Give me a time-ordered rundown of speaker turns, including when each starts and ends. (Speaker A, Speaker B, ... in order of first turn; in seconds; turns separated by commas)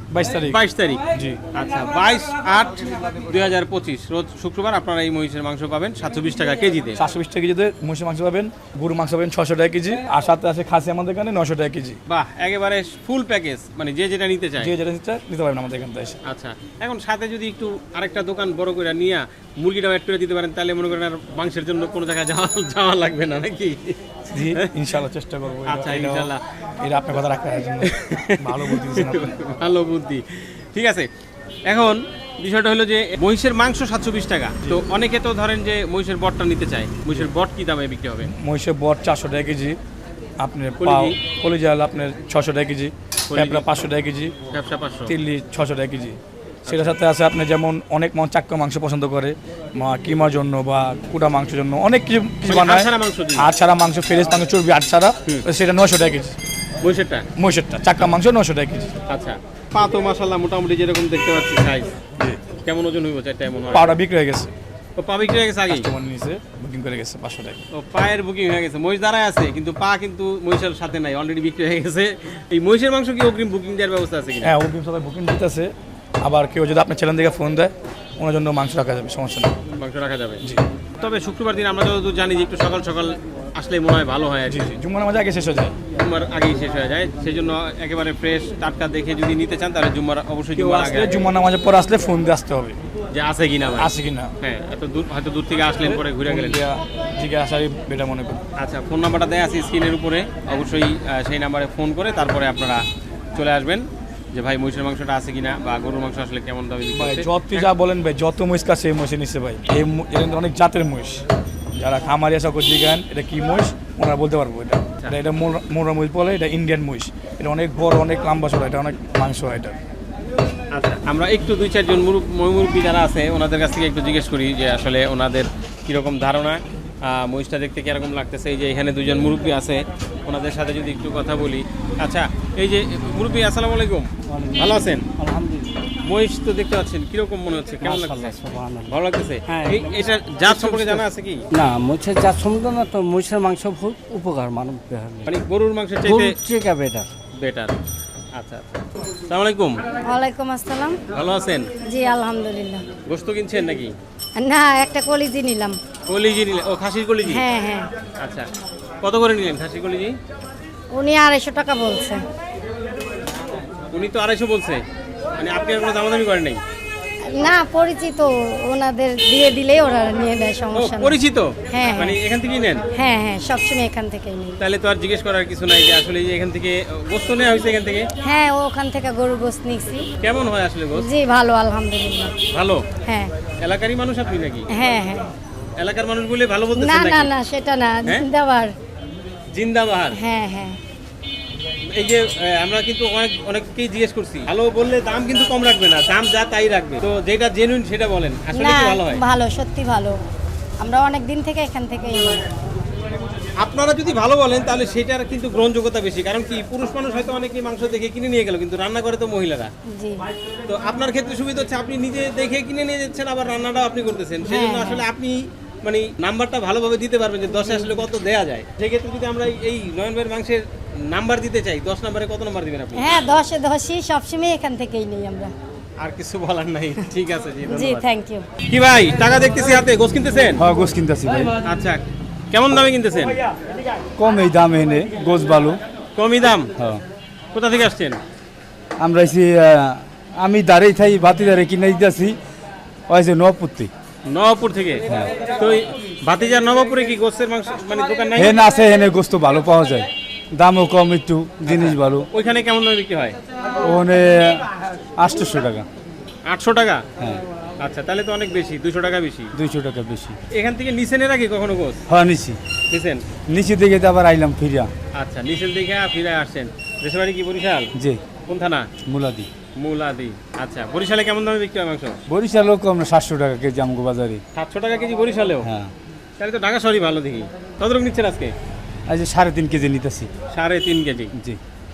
Speaker A: 0.1-0.6, Speaker B: 0.5-1.0, Speaker A: 1.1-1.4, Speaker B: 1.5-7.0, Speaker A: 7.0-12.0, Speaker B: 12.1-14.7, Speaker A: 14.6-16.2, Speaker B: 16.3-24.7, Speaker A: 24.3-29.3, Speaker B: 25.6-26.4, Speaker B: 27.8-31.1, Speaker B: 31.7-38.3, Speaker A: 38.2-39.8, Speaker A: 40.4-44.4, Speaker B: 40.8-41.2, Speaker B: 43.3-43.6, Speaker B: 44.5-45.1, Speaker A: 45.1-56.3, Speaker B: 46.7-47.0, Speaker B: 52.5-53.5, Speaker B: 56.8-57.2, Speaker A: 57.4-58.9, Speaker B: 59.1-62.0, Speaker B: 62.6-63.9, Speaker A: 63.7-64.5, Speaker B: 65.0-65.9, Speaker A: 65.7-67.6, Speaker B: 67.7-74.5, Speaker A: 74.4-75.7, Speaker A: 76.2-79.5, Speaker B: 79.8-80.4, Speaker B: 81.0-84.7, Speaker A: 84.5-85.8, Speaker B: 86.0-91.3, Speaker A: 90.6-92.8, Speaker B: 93.1-96.6, Speaker A: 93.8-94.3, Speaker A: 96.2-98.4, Speaker B: 98.6-102.8, Speaker B: 103.3-107.7, Speaker A: 106.9-111.2, Speaker A: 111.7-119.8, Speaker B: 120.7-135.1, Speaker C: 134.3-135.7, Speaker B: 136.0-141.4, Speaker C: 137.8-139.0, Speaker C: 139.5-145.3, Speaker B: 145.2-146.4, Speaker C: 146.0-147.1, Speaker B: 147.4-147.7, Speaker B: 148.3-149.8, Speaker D: 150.0-151.0, Speaker B: 151.1-151.7, Speaker D: 151.8-152.8, Speaker B: 153.1-153.9, Speaker D: 154.4-155.8, Speaker B: 156.1-157.4, Speaker D: 157.2-157.9, Speaker B: 158.2-158.5, Speaker B: 159.0-160.1, Speaker D: 160.9-162.2, Speaker B: 163.9-164.8, Speaker B: 165.4-166.6, Speaker D: 167.3-171.2, Speaker B: 170.7-172.8, Speaker D: 171.7-172.2, Speaker D: 172.9-174.6, Speaker B: 174.6-178.1, Speaker D: 178.2-180.1, Speaker B: 180.2-181.1, Speaker D: 180.9-182.3, Speaker B: 182.5-182.9, Speaker D: 183.0-183.3, Speaker B: 183.6-184.7, Speaker D: 184.7-185.3, Speaker B: 185.8-187.3, Speaker D: 186.8-188.7, Speaker B: 189.5-190.2, Speaker D: 190.1-190.8, Speaker B: 191.9-199.2, Speaker D: 198.5-200.2, Speaker D: 200.8-202.4, Speaker B: 203.6-209.7, Speaker D: 209.9-210.2, Speaker B: 210.7-223.0, Speaker D: 214.5-215.0, Speaker D: 222.9-225.5, Speaker B: 226.0-228.1, Speaker D: 227.7-228.4, Speaker B: 228.7-230.6, Speaker E: 230.6-231.5, Speaker B: 231.6-233.4, Speaker E: 234.2-235.8, Speaker B: 236.2-236.7, Speaker B: 237.5-238.2, Speaker E: 239.0-242.4, Speaker E: 243.1-243.9, Speaker B: 244.3-248.6, Speaker E: 248.3-252.2, Speaker B: 251.6-253.4, Speaker E: 253.8-254.7, Speaker E: 255.2-255.9, Speaker B: 256.4-257.0, Speaker B: 257.8-259.5, Speaker E: 259.6-260.4, Speaker B: 260.5-262.0, Speaker E: 262.1-262.6, Speaker B: 262.9-263.2, Speaker E: 263.5-264.9, Speaker B: 265.1-267.9, Speaker B: 268.5-268.9, Speaker E: 269.1-269.5, Speaker B: 269.8-272.2, Speaker E: 272.3-274.4, Speaker B: 274.6-275.7, Speaker E: 275.6-275.9, Speaker B: 276.4-278.5, Speaker E: 279.1-280.3, Speaker B: 280.5-281.3